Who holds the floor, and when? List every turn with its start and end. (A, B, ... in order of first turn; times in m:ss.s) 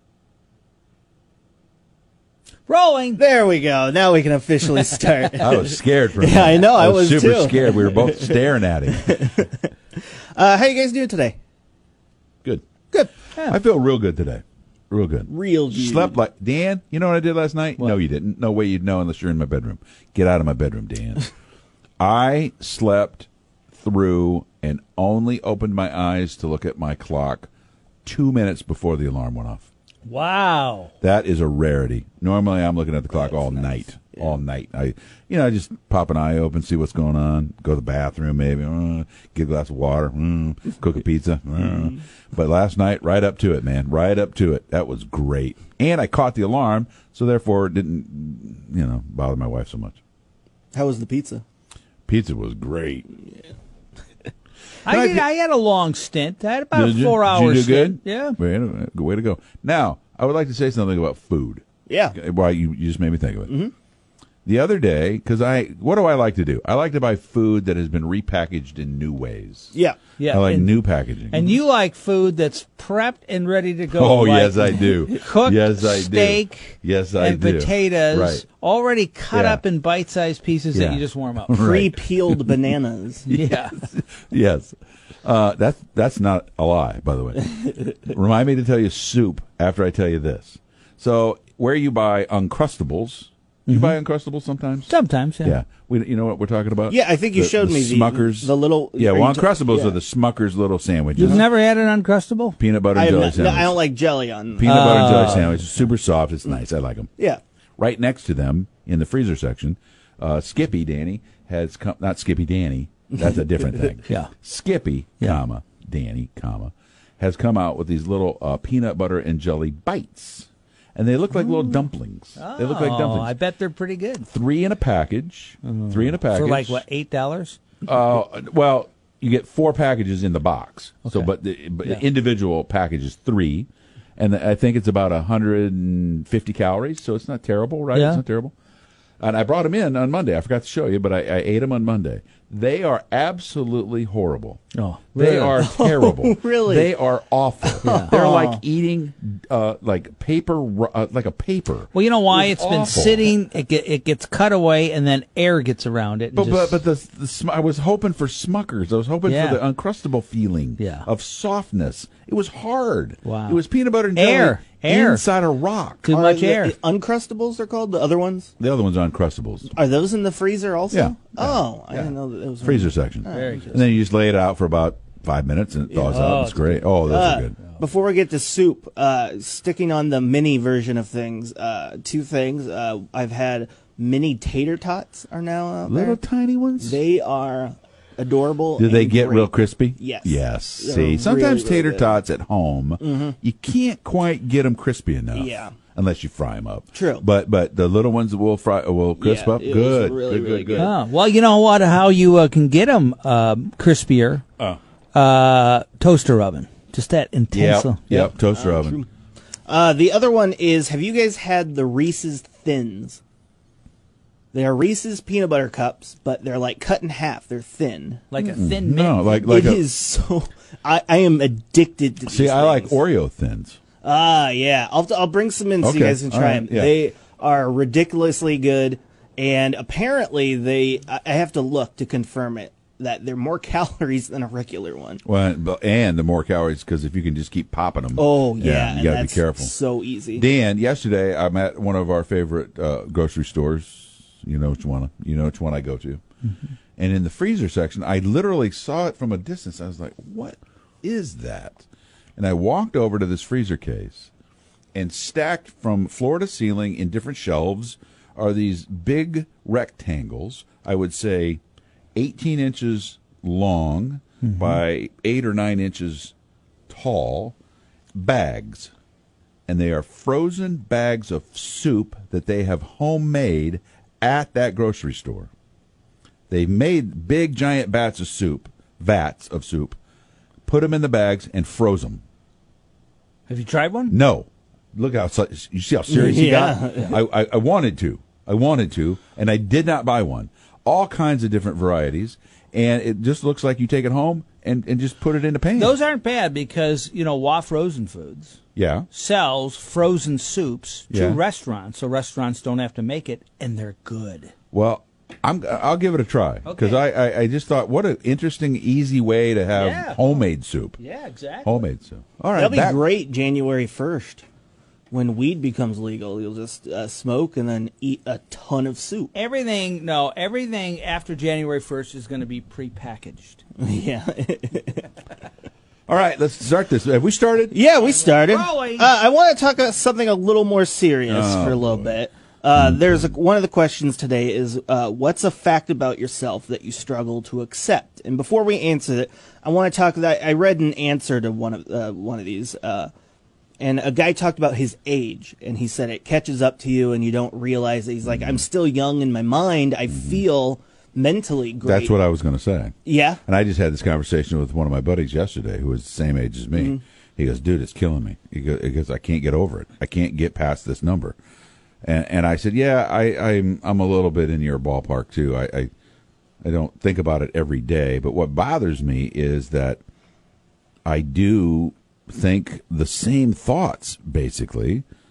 0:02.7-0:03.2 A
0:03.2-0:08.4 B
0:05.4-0:09.3 C
0:08.9-0:11.4 B
0:13.4-0:21.3 C
0:15.3-0:16.2 B
0:22.0-0:27.5 C
0:28.0-0:29.7 C
0:30.0-0:30.9 A
0:31.0-0:50.0 C
0:33.3-0:34.2 B
0:50.7-0:51.4 B
0:52.1-0:53.0 C
0:54.8-0:58.4 A
0:54.9-0:55.2 C
0:56.7-1:03.5 C
1:01.9-1:02.2 B
1:03.5-1:03.7 B
1:04.4-1:09.7 C
1:09.7-1:10.0 B
1:10.2-1:10.7 A
1:10.3-1:11.6 C
1:11.3-1:21.7 A
1:13.9-1:18.4 C
1:19.3-1:19.6 C
1:20.7-1:22.5 C
1:21.6-1:23.3 B
1:23.2-1:23.8 A
1:23.3-1:34.9 C
1:33.7-1:34.0 A
1:34.9-1:35.6 A
1:35.4-1:41.4 C
1:36.9-1:40.0 B
1:41.2-1:42.6 A
1:42.6-1:43.8 C
1:42.9-1:45.4 B
1:44.6-1:47.1 C
1:44.6-1:45.9 A
1:47.8-2:03.3 C
1:53.1-1:53.9 B
1:54.1-1:54.3 A
2:01.3-2:01.8 A
2:02.4-2:04.3 A
2:04.2-2:06.8 C
2:05.6-2:07.7 A
2:07.8-2:18.5 C
2:11.0-2:11.3 A
2:17.9-2:18.2 A
2:19.2-2:24.6 C
2:24.7-2:25.6 A
2:25.1-2:33.3 C
2:25.6-2:26.9 B
2:27.6-2:28.6 B
2:27.8-2:28.1 A
2:31.9-2:36.8 A
2:36.3-2:46.1 C
2:39.2-2:39.6 A
2:40.8-2:41.1 A
2:43.2-2:43.6 A
2:44.1-2:45.2 A
2:46.0-2:46.7 A
2:46.1-2:48.5 B
2:48.6-2:49.7 C
2:49.7-2:53.7 B
2:50.9-2:57.6 C
2:53.3-2:53.9 A
2:55.9-3:06.2 B
2:56.0-2:56.9 A
3:05.9-3:07.0 C
3:06.8-3:12.2 B
3:08.8-3:20.9 C
3:13.0-3:13.4 B
3:15.3-3:15.7 B
3:16.9-3:17.2 B
3:19.2-3:21.0 B
3:20.8-3:24.4 A
3:25.1-3:28.3 A
3:27.5-3:29.0 C
3:28.5-3:29.1 B
3:29.7-3:33.2 B
3:34.5-3:38.4 B
3:38.3-3:39.5 A
3:38.4-3:39.8 C
3:39.4-3:43.0 B
3:42.3-3:43.8 C
3:44.0-3:55.2 B
3:45.8-3:47.0 C
3:55.2-3:59.7 C
3:58.2-4:00.4 B
4:00.3-4:06.2 C
4:07.0-4:11.8 C
4:12.4-4:14.3 C
4:14.9-4:21.6 C
4:22.1-4:26.3 C
4:24.4-4:24.8 A
4:26.9-4:27.6 C
4:28.1-4:28.9 C
4:29.7-4:35.5 C
4:36.5-4:40.0 C
4:40.6-4:42.2 C
4:43.5-4:44.1 A
4:44.1-4:56.0 C
4:46.1-4:47.2 B
4:55.7-4:58.6 A
4:58.8-4:59.1 C
4:59.1-5:04.5 A
5:01.1-5:01.4 C
5:04.7-5:11.0 C
5:06.6-5:07.0 A
5:09.7-5:10.4 A
5:11.0-5:11.8 A
5:11.6-5:13.0 C
5:12.6-5:14.4 B
5:15.1-5:19.3 B
5:19.3-5:23.6 A
5:23.8-5:25.1 B
5:26.1-5:27.8 C
5:27.7-5:43.1 B
5:28.0-5:29.1 A
5:31.3-5:32.1 C
5:32.8-5:33.3 C
5:43.8-5:52.1 B
5:48.3-5:48.6 C
5:50.1-5:50.4 C
5:51.8-5:52.9 C
5:53.0-5:53.4 B
5:53.5-6:01.4 C
5:56.7-5:57.0 B
6:02.0-6:05.9 C
6:06.6-6:10.0 C
6:11.0-6:15.0 C